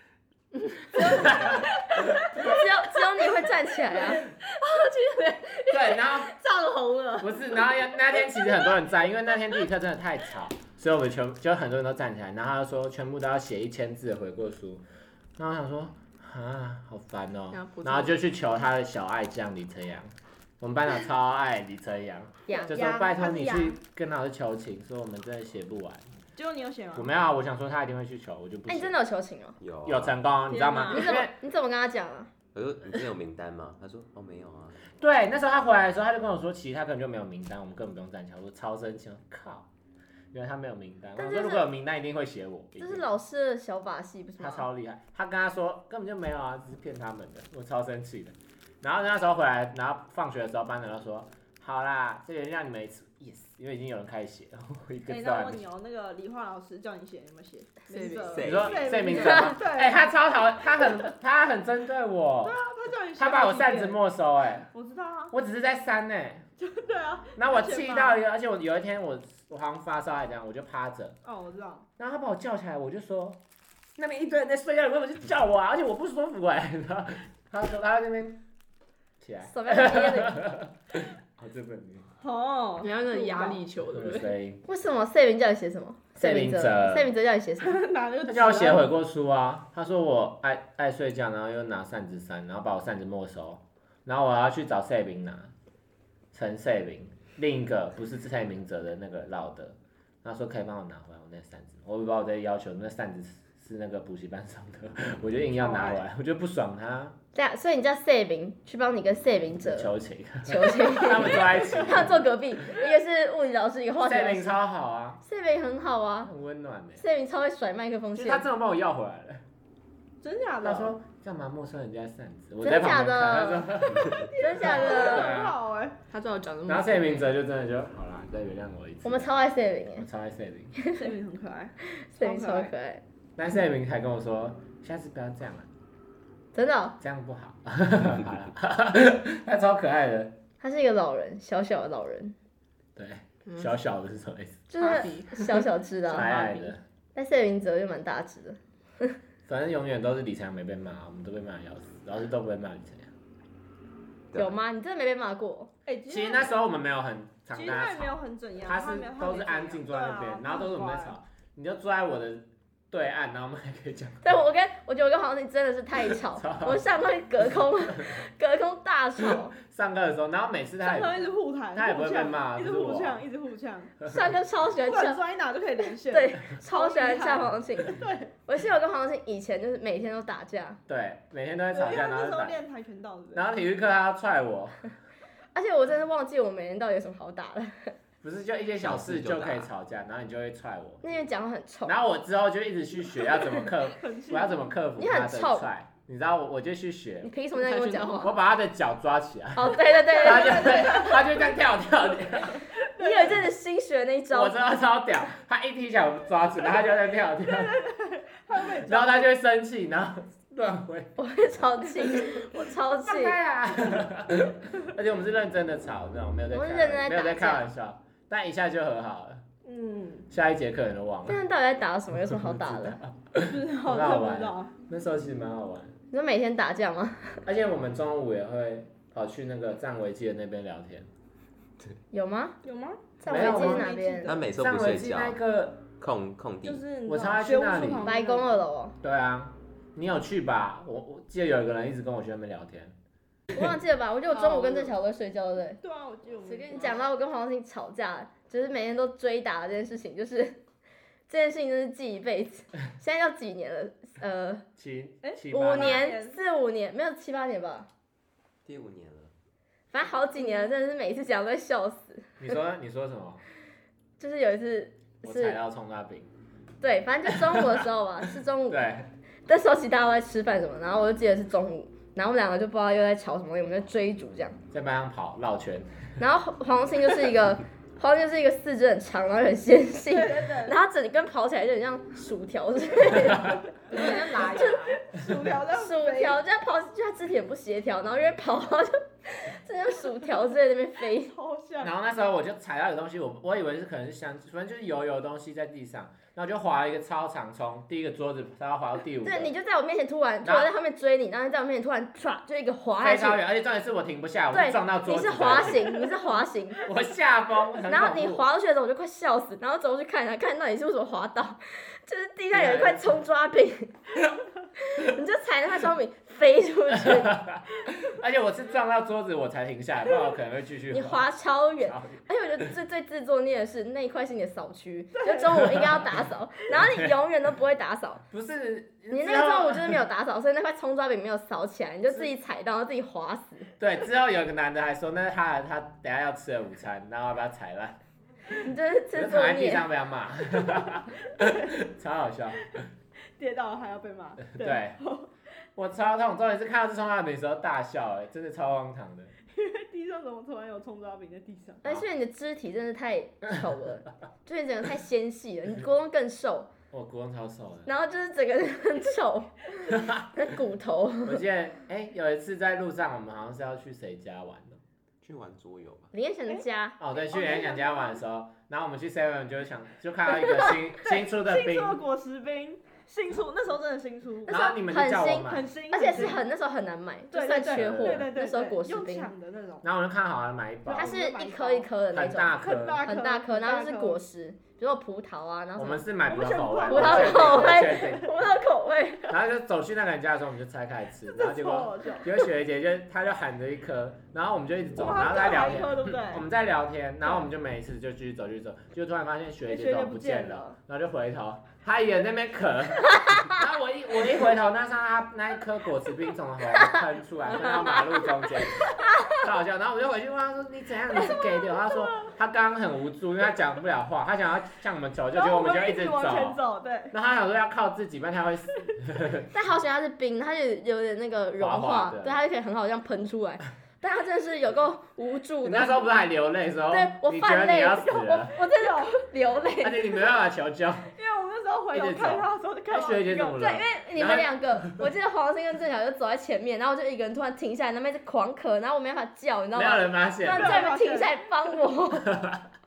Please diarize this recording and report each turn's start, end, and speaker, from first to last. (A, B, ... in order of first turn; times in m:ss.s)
0:00.9-0:01.5 A
0:01.0-0:01.7 B
0:01.0-0:01.6 C
0:02.3-0:04.3 A
0:03.9-0:07.3 B
0:05.7-0:06.3 C
0:07.2-0:14.8 C
0:15.4-0:26.1 C
0:17.5-0:18.1 B
0:22.5-0:23.8 A
0:26.3-0:27.1 D
0:26.9-0:29.0 C
0:28.7-0:29.6 A
0:29.6-0:30.2 E
0:29.8-0:31.3 C
0:30.5-0:31.0 D
0:30.9-0:32.3 A
0:32.5-0:34.9 E
0:35.0-0:39.6 C
0:40.3-0:43.1 C
0:41.2-0:41.6 A
0:42.8-0:44.7 A
0:44.4-0:55.6 C
0:55.1-1:00.1 D
0:57.9-0:58.6 B
0:58.2-0:59.1 E
0:58.4-1:02.6 C
1:02.4-1:04.0 D
1:03.2-1:04.7 C
1:04.7-1:05.3 D
1:05.3-1:06.4 C
1:06.6-1:08.2 D
1:07.4-1:11.1 C
1:11.2-1:11.8 D
1:12.0-1:13.4 C
1:14.0-1:18.4 C
1:19.2-1:22.1 C
1:19.4-1:20.4 A
1:22.2-1:23.7 D
1:22.8-1:24.3 B
1:23.9-1:24.6 C
1:24.6-1:27.8 A
1:26.2-1:27.1 C
1:27.6-1:28.9 D
1:28.2-1:35.5 C
1:36.3-1:47.2 C
1:45.6-1:46.0 D
1:47.3-1:49.9 A
1:49.6-1:52.2 C
1:50.4-1:54.6 A
1:54.0-1:55.2 C
1:55.2-1:56.3 A
1:56.2-1:57.0 C
1:57.0-1:58.5 A
1:58.1-1:59.4 C
2:00.2-2:01.0 D
2:00.6-2:05.5 C
2:02.6-2:03.7 A
2:04.0-2:06.0 D
2:04.3-2:05.3 A
2:06.1-2:07.3 B
2:06.6-2:09.3 C
2:09.0-2:10.1 A
2:10.0-2:10.7 C
2:10.9-2:12.7 D
2:12.0-2:13.0 A
2:13.4-2:15.7 C
2:16.5-2:17.0 A
2:17.0-2:20.4 C
2:20.6-2:22.3 A
2:23.0-2:24.6 C
2:24.7-2:26.3 A
2:24.8-2:26.7 B
2:26.1-2:26.8 C
2:27.1-2:28.6 A
2:29.5-2:33.1 C
2:34.3-2:35.7 A
2:35.8-2:36.5 D
2:36.1-2:44.3 C
2:37.5-2:41.2 D
2:44.2-2:49.5 A
2:46.3-2:46.8 C
2:49.6-2:53.2 C
2:50.8-2:53.9 D
2:54.0-2:55.2 A
2:54.8-2:58.3 D
2:56.1-3:00.8 A
3:00.9-3:02.6 C
3:01.7-3:03.4 D
3:03.3-3:04.8 C
3:05.5-3:07.9 A
3:08.2-3:11.1 C
3:08.8-3:09.7 E
3:11.0-3:11.9 A
3:11.8-3:17.3 C
3:14.0-3:14.8 D
3:15.0-3:15.7 A
3:17.2-3:18.4 A
3:17.5-3:18.2 B
3:18.2-3:22.6 C
3:19.5-3:21.1 A
3:20.2-3:21.4 D
3:22.6-3:23.4 D
3:23.0-3:24.6 A
3:24.3-3:27.7 C
3:27.4-3:29.3 D
3:28.8-3:31.2 C
3:31.2-3:33.4 A
3:33.0-3:39.4 C
3:36.5-3:37.7 A
3:39.6-3:40.3 D
3:40.3-3:41.4 C
3:41.2-3:43.0 A
3:42.5-3:45.9 C
3:43.4-3:44.7 D
3:46.1-3:47.4 A
3:47.4-3:51.1 C
3:52.1-3:52.6 A
3:52.6-3:54.4 D
3:53.2-3:54.4 A
3:53.3-3:53.9 C
3:54.2-3:55.4 E
3:54.6-3:55.8 C
3:56.0-3:56.8 E
3:56.6-3:58.6 D
3:57.0-3:58.1 C
3:58.0-3:59.0 A
3:59.0-4:02.9 C
4:03.5-4:05.8 A
4:04.3-4:05.0 B
4:05.8-4:07.0 D
4:06.4-4:07.0 B
4:06.7-4:10.6 A
4:11.3-4:14.6 A
4:14.8-4:16.1 C
4:15.2-4:16.4 D
4:15.5-4:17.9 A
4:18.6-4:19.3 E
4:19.9-4:22.5 A
4:22.4-4:23.4 C
4:24.2-4:25.6 A
4:25.2-4:26.3 C
4:26.8-4:28.9 A
4:28.7-4:29.1 C
4:29.5-4:34.6 A
4:34.7-4:35.9 C
4:36.2-4:44.8 A
4:40.1-4:40.7 D
4:43.9-4:46.4 D
4:43.9-4:45.0 B
4:45.7-4:51.3 A
4:51.1-4:51.9 D
4:51.8-4:59.5 C
4:59.2-5:03.4 A
5:00.4-5:00.7 C
5:03.0-5:05.9 C
5:04.5-5:06.9 A
5:06.8-5:08.4 C
5:07.8-5:13.9 A
5:12.5-5:13.2 C
5:14.8-5:17.4 A
5:17.5-5:21.3 C
5:20.9-5:28.2 A
5:21.8-5:22.2 C
5:25.6-5:26.1 C
5:28.3-5:30.0 C
5:29.1-5:33.7 A
5:32.1-5:32.3 C
5:33.8-5:38.0 C
5:38.6-5:39.9 A
5:39.1-5:42.8 C
5:43.4-5:45.3 D
5:44.5-5:45.0 C
5:45.8-5:49.3 C
5:49.5-5:51.8 D
5:51.8-5:56.7 A
5:56.9-5:57.9 C
5:57.8-6:01.4 A
6:01.2-6:04.8 C
6:05.2-6:06.1 E
6:06.1-6:07.0 A
6:07.0-6:12.0 C
6:07.2-6:08.2 D
6:10.5-6:10.7 A
6:11.3-6:14.6 D
6:14.4-6:19.3 A
6:14.5-6:15.6 C
6:15.5-6:16.4 D
6:17.3-6:19.8 D
6:17.7-6:18.3 C
6:19.8-6:21.2 C
6:20.8-6:21.9 D
6:20.9-6:26.0 A
6:22.1-6:23.0 C
6:22.6-6:24.2 D
6:25.8-6:28.3 C
6:26.3-6:28.2 D
6:26.8-6:29.4 A
6:29.3-6:56.6 C
6:31.3-6:32.4 D
6:34.9-6:36.4 D
6:39.7-6:40.8 D
6:55.3-6:57.1 D
6:57.1-6:59.5 C
6:59.5-7:06.1 A
7:01.6-7:02.4 C
7:05.6-7:08.6 C
7:06.9-7:10.0 A
7:08.7-7:09.2 D
7:09.8-7:11.1 C
7:11.1-7:13.6 D
7:11.9-7:15.1 C
7:13.6-7:22.4 A
7:19.7-7:20.8 C
7:20.5-7:21.3 D
7:22.2-7:22.6 C